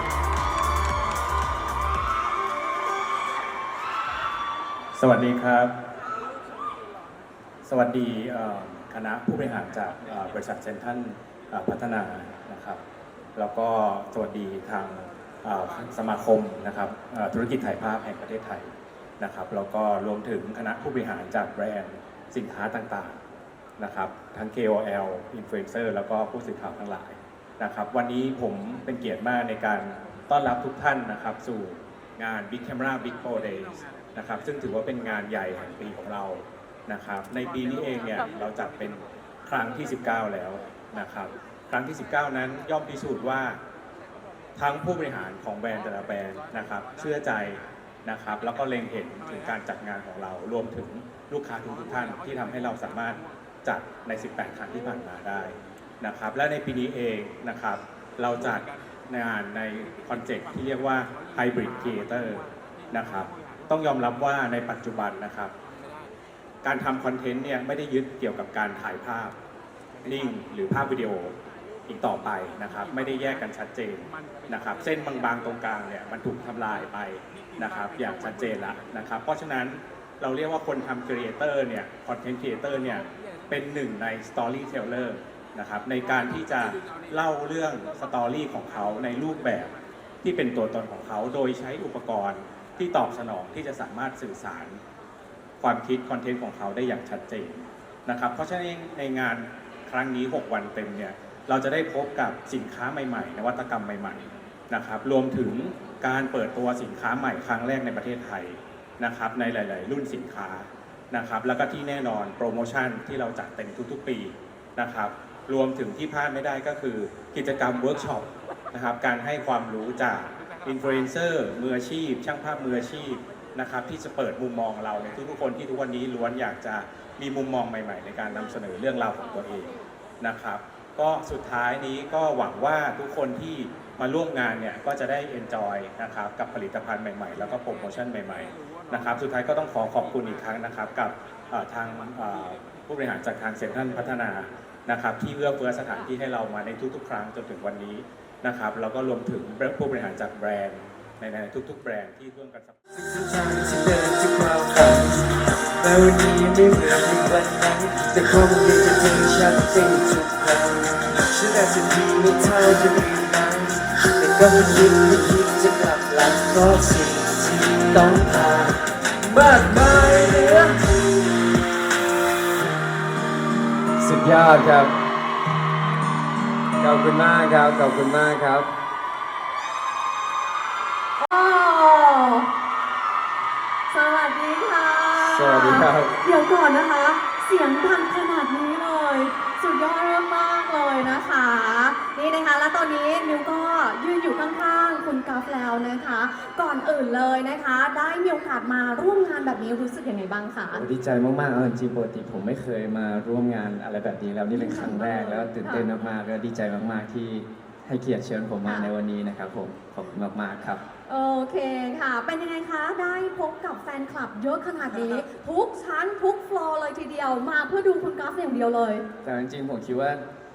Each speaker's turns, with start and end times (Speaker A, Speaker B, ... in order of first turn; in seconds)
Speaker A: 5.0-5.8, 7.7-12.8, 13.4-23.2, 23.8-43.6, 44.6-65.5, 66.6-69.4, 70.0-71.4, 71.9-94.8, 95.6-152.8
Speaker B: 153.0-155.2, 155.8-168.8, 169.8-170.4
Speaker C: 153.1-155.1, 155.8-160.7, 161.3-168.4, 169.2-170.7, 174.0-175.1, 176.8-178.7, 185.3-186.2, 200.7-210.8, 219.2-220.2
Speaker D: 181.2-182.5, 183.9-200.8, 204.5-205.9, 208.7-208.9, 211.1-219.1